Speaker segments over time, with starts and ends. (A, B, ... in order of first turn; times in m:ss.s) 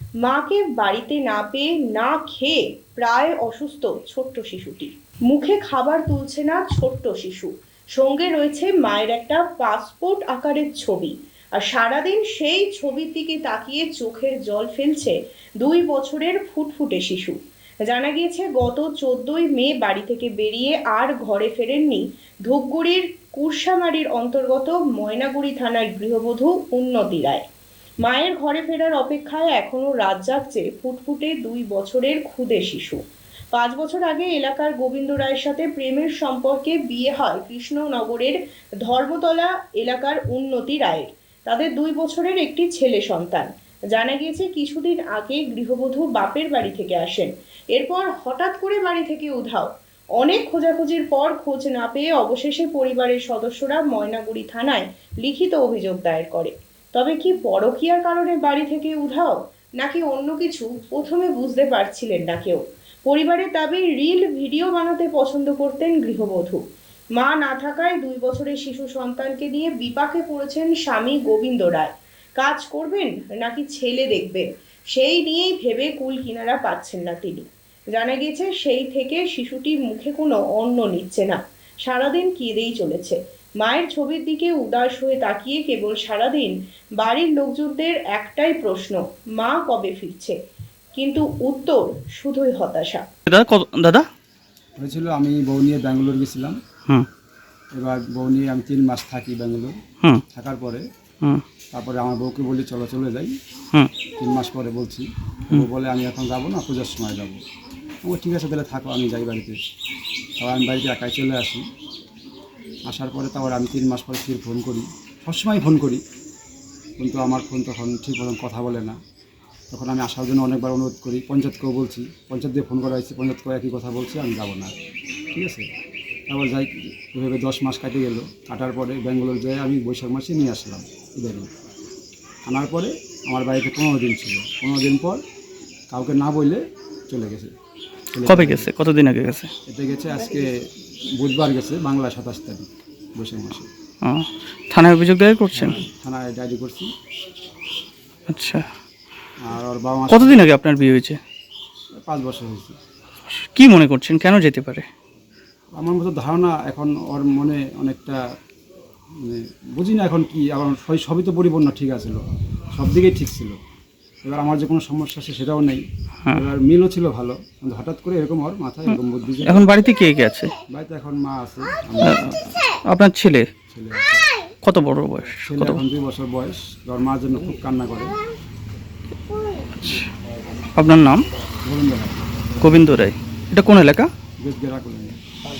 0:00.2-0:27.4 A
0:28.0-0:33.0 A
0:33.5-1:06.6 A
1:07.2-1:30.4 A
1:30.9-1:33.0 A
1:33.3-1:34.0 B
1:34.8-1:36.6 C
1:37.7-1:39.8 C
1:40.3-1:40.8 C
1:41.7-1:43.3 C
1:44.2-1:47.4 C
1:48.0-1:49.6 C
1:50.4-1:51.6 C
1:52.9-1:56.0 C
1:57.0-1:59.0 C
1:59.7-2:04.7 C
2:05.3-2:05.6 C
2:06.3-2:11.5 C
2:12.5-2:15.2 C
2:15.9-2:17.5 C
2:18.1-2:18.7 C
2:18.2-2:19.5 B
2:19.7-2:20.5 C
2:21.1-2:23.7 C
2:24.0-2:25.8 B
2:25.5-2:26.9 C
2:28.3-2:28.7 B
2:29.4-2:30.6 C
2:30.1-2:31.2 B
2:32.1-2:32.8 C
2:33.5-2:34.8 B
2:35.8-2:38.2 C
2:39.2-2:42.2 C
2:42.7-2:43.6 C
2:44.2-2:49.7 C
2:48.9-2:50.5 B
2:50.7-2:52.4 C
2:52.0-2:52.4 B
2:52.9-2:53.5 B
2:53.7-2:54.3 C
2:54.6-2:55.8 B
2:55.4-2:58.2 C
2:59.8-3:00.1 B
3:00.8-3:01.2 B
3:01.6-3:02.3 C
3:02.6-3:04.1 B
3:04.4-3:05.2 C